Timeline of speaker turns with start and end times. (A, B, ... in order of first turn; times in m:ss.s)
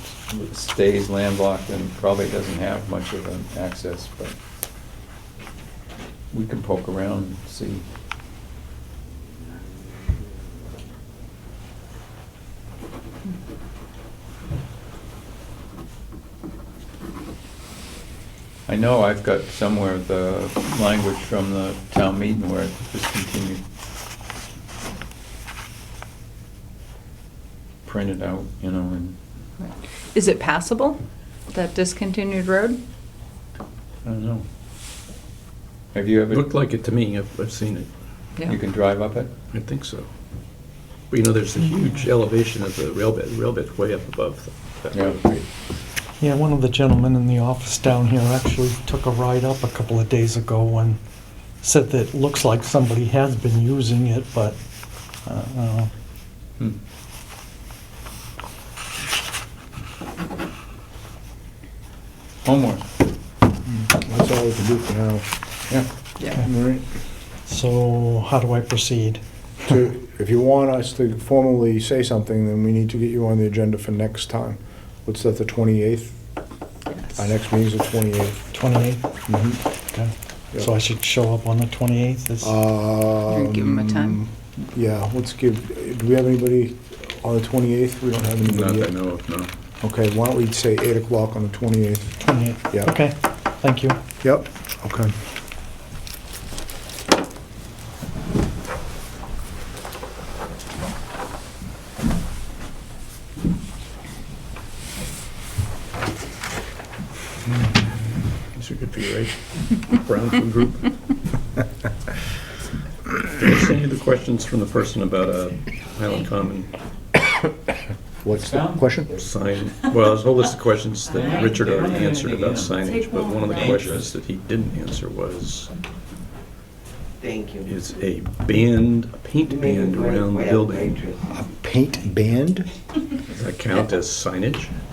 0:00.3-0:04.4 A
0:06.3-0:07.8 A
0:18.7-0:23.6 A
0:27.8-0:29.2 A
0:29.6-0:31.0 B
0:31.5-0:32.8 B
0:34.0-0:34.4 A
0:35.9-0:36.5 A
0:36.3-0:37.9 C
0:38.4-0:39.3 A
0:39.5-0:40.1 C
0:41.1-0:45.4 C
0:44.9-0:45.4 A
0:46.2-0:51.0 D
0:51.6-0:54.6 D
0:55.2-0:55.9 D
1:02.4-1:02.9 A
1:03.7-1:05.3 E
1:06.4-1:06.9 E
1:07.5-1:09.2 D
1:09.7-1:16.2 E
1:17.2-1:18.5 E
1:18.5-1:19.0 D
1:19.3-1:19.6 E
1:19.9-1:22.6 D
1:22.4-1:29.0 E
1:23.3-1:24.2 B
1:28.4-1:29.5 C
1:29.8-1:33.0 E
1:32.2-1:34.0 D
1:34.2-1:35.2 E
1:48.5-1:50.9 C
1:53.3-1:56.7 C
1:58.2-1:59.1 E
1:58.3-1:59.1 A
1:59.2-2:05.7 C
2:01.1-2:02.9 A
2:02.9-2:03.5 B
2:03.4-2:04.1 A
2:07.2-2:07.7 F
2:07.6-2:11.0 C
2:09.5-2:11.2 F
2:11.3-2:12.7 E
2:13.3-2:14.7 C